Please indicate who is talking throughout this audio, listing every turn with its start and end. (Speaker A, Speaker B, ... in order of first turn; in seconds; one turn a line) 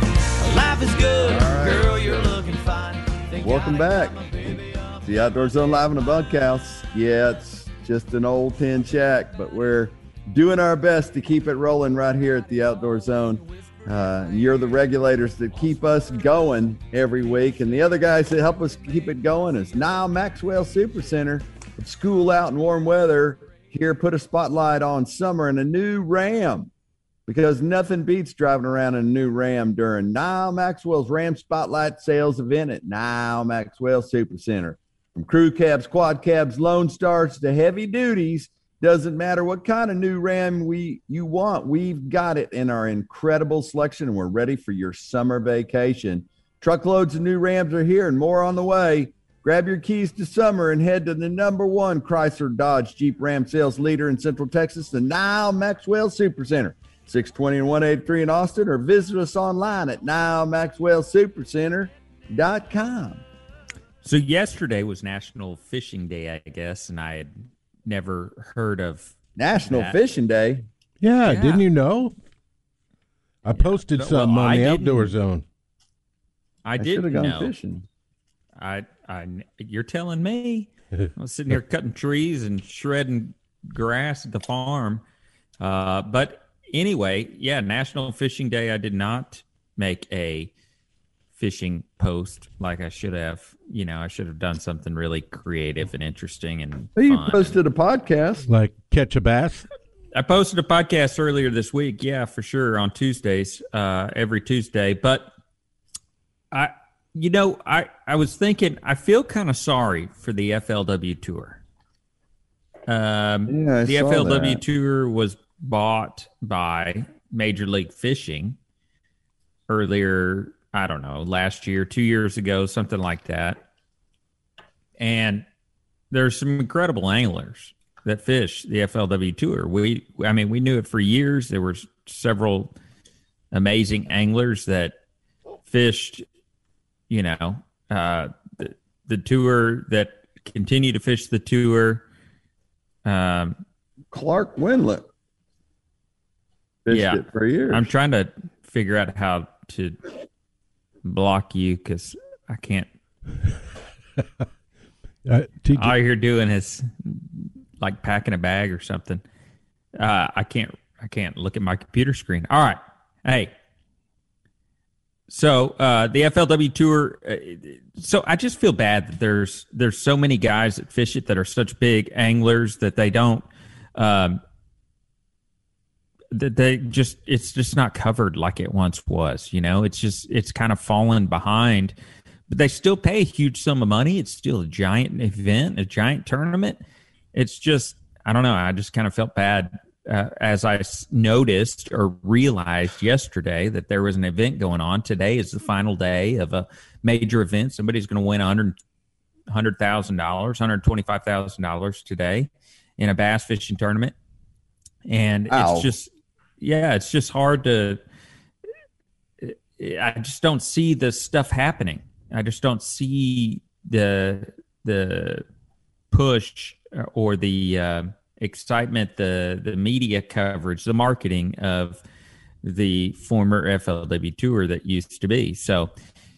Speaker A: 0.4-5.1
Speaker B: 1.2-2.3
Speaker B: 3.4-26.7
Speaker B: 27.3-63.2
Speaker C: 64.0-70.0
Speaker B: 69.3-70.7
Speaker D: 71.0-72.1
Speaker C: 71.2-71.6
Speaker D: 73.4-75.4
Speaker C: 73.5-75.1
Speaker C: 76.6-77.5
Speaker B: 76.8-77.8
Speaker C: 78.6-85.0
Speaker C: 85.6-90.5
Speaker C: 91.3-97.5
Speaker B: 97.0-98.4
Speaker D: 98.5-99.7
Speaker C: 100.1-105.3
Speaker C: 106.5-111.6
Speaker C: 112.9-118.5
Speaker B: 113.5-114.6
Speaker C: 119.7-123.6
Speaker C: 125.0-125.4
Speaker C: 126.1-132.7
Speaker C: 133.5-134.9
Speaker C: 135.7-136.2
Speaker C: 137.1-142.0
Speaker C: 143.0-143.6
Speaker B: 144.1-145.0
Speaker B: 146.8-147.9
Speaker C: 146.9-150.0
Speaker C: 151.0-152.9
Speaker D: 155.2-156.0
Speaker C: 155.8-159.2
Speaker C: 160.0-163.5
Speaker C: 165.3-174.4
Speaker C: 176.3-181.9
Speaker C: 182.5-186.8
Speaker C: 187.3-198.8
Speaker C: 199.5-204.1
Speaker C: 205.1-208.0
Speaker B: 205.5-205.9
Speaker C: 209.4-215.4
Speaker C: 216.1-222.0
Speaker C: 222.6-225.9